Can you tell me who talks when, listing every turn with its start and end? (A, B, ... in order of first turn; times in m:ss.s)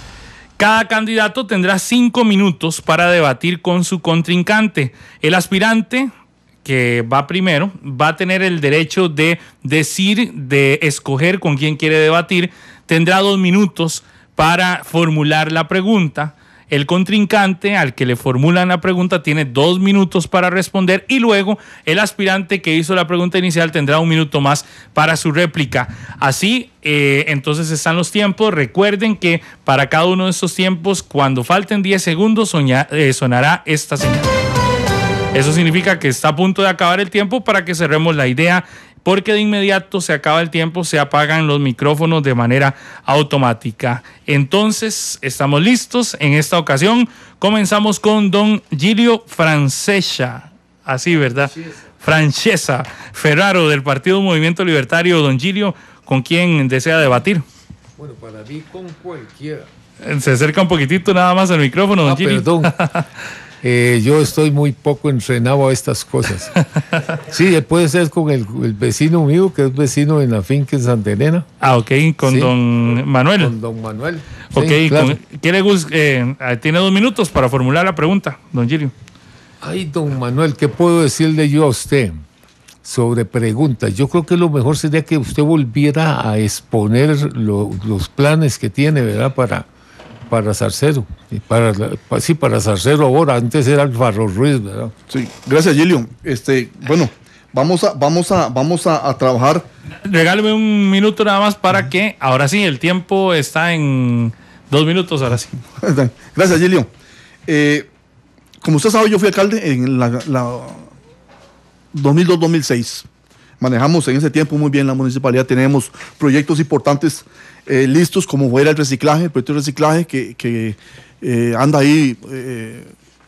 0:00.6-0:06.1 A
0:06.6-0:34.3 A
0:35.3-0:57.4 A
0:58.0-0:59.7 B
1:00.0-1:03.0 A
1:02.0-1:02.8 B
1:03.6-1:11.5 B
1:11.6-1:13.5 A
1:12.2-1:12.5 B
1:13.4-1:15.2 B
1:14.5-1:18.9 A
1:19.6-1:22.2 B
1:22.8-1:29.7 B
1:30.3-1:34.9 B
1:35.1-1:39.7 C
1:40.0-1:45.6 A
1:45.8-1:46.9 C
1:47.5-1:47.9 C
1:48.6-1:50.9 C
1:51.9-1:53.1 C
1:53.6-2:02.9 C